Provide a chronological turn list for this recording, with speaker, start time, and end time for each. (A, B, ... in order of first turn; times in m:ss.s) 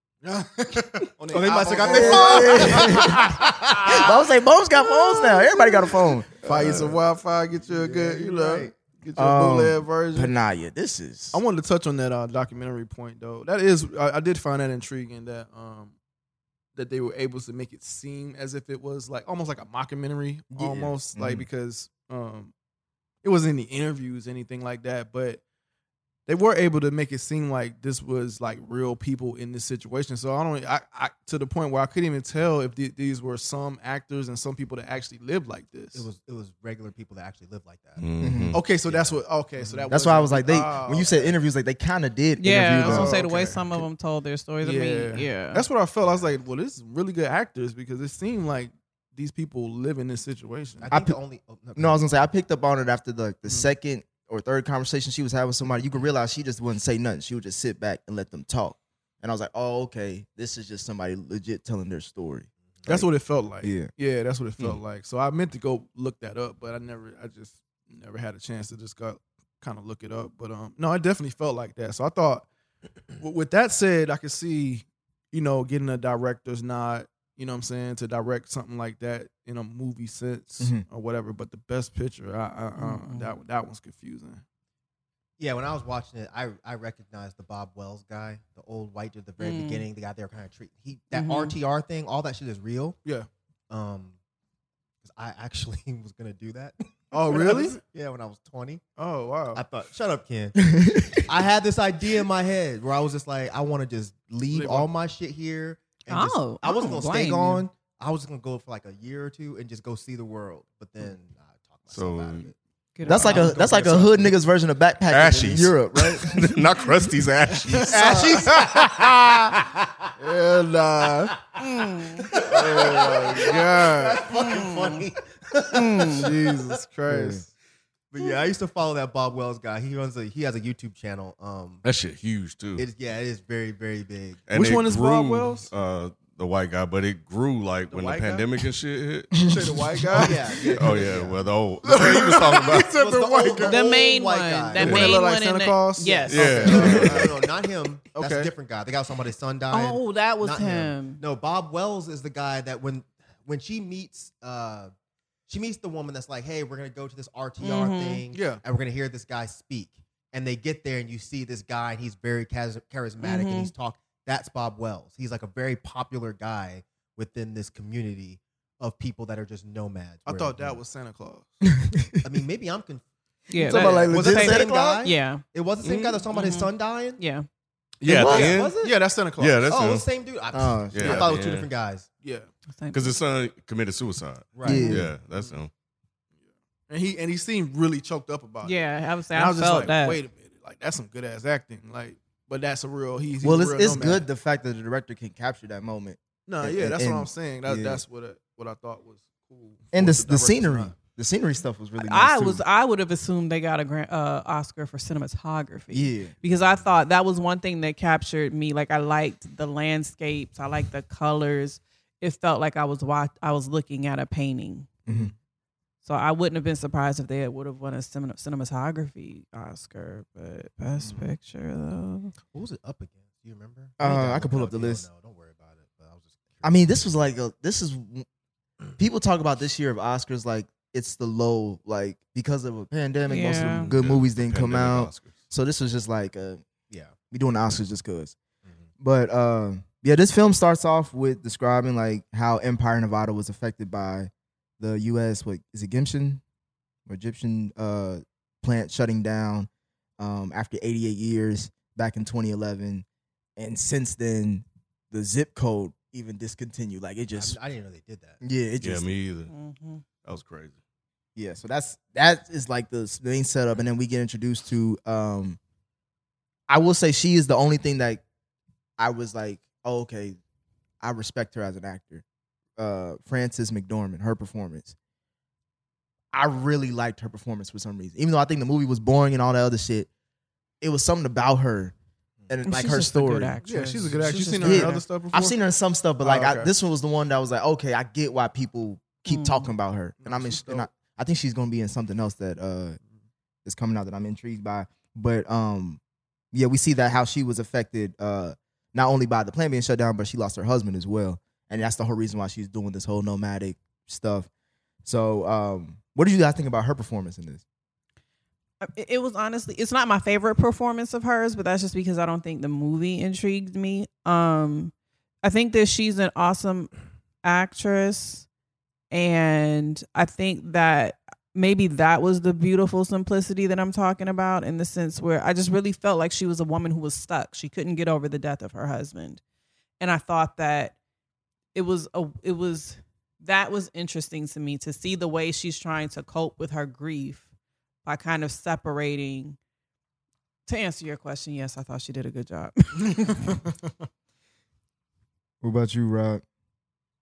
0:00.2-0:04.0 A
0:01.3-0:04.2 B
0:01.8-0:03.2 C
0:03.8-0:06.3 C
0:06.4-0:10.3 A
0:06.5-0:06.8 D
0:07.6-0:08.7 B
0:09.1-0:11.4 C
0:11.3-0:15.9 A
0:16.8-0:22.5 A
0:20.5-0:21.4 C
0:23.2-0:25.4 A
0:26.3-0:36.1 A
0:35.9-0:38.1 B
0:38.0-0:38.6 D
0:38.2-0:38.6 C
0:38.5-0:41.3 A
0:38.8-0:39.9 B
0:39.9-0:43.1 C
0:42.4-0:45.6 E
0:42.8-0:43.8 A
0:44.6-0:50.9 A
0:46.0-0:46.3 B
0:50.8-0:52.0 B
0:50.9-0:51.2 C
0:51.8-1:03.0 C
1:02.9-1:12.5 A
1:03.6-1:03.9 C
1:13.2-1:24.4 A
1:22.8-1:23.3 E
1:25.4-1:33.0 B
1:29.4-1:29.8 E
1:31.1-1:31.5 E
1:33.7-1:34.2 B
1:35.0-1:38.8 B
1:37.1-1:37.8 A
1:39.0-1:39.6 A
1:39.5-1:54.3 B
1:40.6-1:41.2 C
1:44.5-1:44.9 A
1:46.1-1:47.6 E
1:51.9-1:52.5 D
1:53.0-1:53.5 E
1:53.0-1:56.3 C
1:55.1-1:58.2 D
1:57.8-2:00.1 B
1:58.0-1:59.2 A
2:00.2-2:01.4 A
2:01.2-2:06.6 B
2:01.6-2:02.3 E
2:02.3-2:04.3 A
2:04.3-2:05.0 E
2:05.7-2:06.3 E
2:06.1-2:07.5 A
2:07.1-2:07.4 C
2:08.1-2:11.8 B
2:11.8-2:12.8 D
2:12.8-2:14.4 B
2:14.5-2:19.5 D
2:14.5-2:15.7 A
2:17.9-2:18.6 A
2:19.4-2:21.0 A
2:20.1-2:21.5 B
2:20.7-2:23.0 D
2:21.8-2:23.8 A
2:22.8-2:25.2 B
2:23.6-2:26.8 E
2:24.8-2:27.3 A
2:26.0-2:34.9 B
2:26.3-2:27.4 D
2:28.2-2:28.5 A
2:29.7-2:31.2 E
2:35.5-2:50.8 B
2:37.6-2:38.2 E
2:38.3-2:38.6 A
2:43.2-2:43.7 E
2:50.2-2:51.6 A
2:51.7-2:52.2 C
2:52.2-2:53.0 B
2:53.5-2:57.4 E
2:53.6-2:55.1 C
2:53.7-2:54.1 A
2:53.8-2:57.2 B
2:55.8-2:56.1 D
2:58.0-2:58.8 D
2:58.1-2:58.6 C
2:58.2-2:59.7 A
2:58.2-2:58.9 B
2:59.4-3:00.1 D
2:59.7-3:02.1 B
3:00.5-3:01.2 C
3:00.9-3:01.7 D
3:01.0-3:01.3 A
3:02.2-3:02.5 A
3:02.7-3:03.2 E
3:02.9-3:05.7 D
3:04.5-3:04.9 B
3:04.6-3:05.1 C
3:04.6-3:05.0 E
3:06.9-3:08.8 A
3:08.6-3:10.2 E
3:09.3-3:14.2 A
3:13.4-3:18.0 C
3:16.5-3:20.9 A
3:19.9-3:22.6 C
3:22.0-3:34.9 E
3:25.9-3:26.3 C
3:35.0-3:35.3 C
3:35.1-3:35.3 A
3:36.0-3:42.3 E
3:41.0-3:41.3 B
3:42.5-3:46.9 B
3:44.0-3:45.0 C
3:46.6-3:48.2 C
3:49.0-3:56.6 C
3:53.3-3:53.9 E
3:53.6-3:55.4 D
3:57.3-3:58.4 C
3:59.0-4:06.4 C
4:07.0-4:13.0 C
4:13.6-4:17.6 C
4:17.3-4:18.4 B
4:18.4-4:19.1 C
4:18.8-4:19.5 D
4:19.5-4:20.0 E
4:20.2-4:20.8 D
4:21.4-4:25.6 C
4:26.7-4:28.2 C
4:29.0-4:30.4 C
4:31.0-4:32.2 C
4:32.8-4:35.0 C
4:36.3-4:40.1 C
4:40.8-4:41.9 C
4:42.5-4:43.6 C
4:42.6-4:45.0 E
4:43.6-4:45.6 A
4:44.6-4:53.0 C
4:46.2-4:46.7 A
4:49.2-4:49.7 E
4:50.2-4:50.9 A
4:53.6-4:56.0 C
4:56.5-5:04.5 C
5:05.0-5:07.6 C
5:08.8-5:16.9 E
5:17.4-5:18.4 E
5:19.1-5:29.4 E
5:30.0-5:30.9 E
5:31.7-5:37.4 E
5:38.0-5:39.6 E
5:40.7-5:43.5 E
5:45.6-5:46.4 C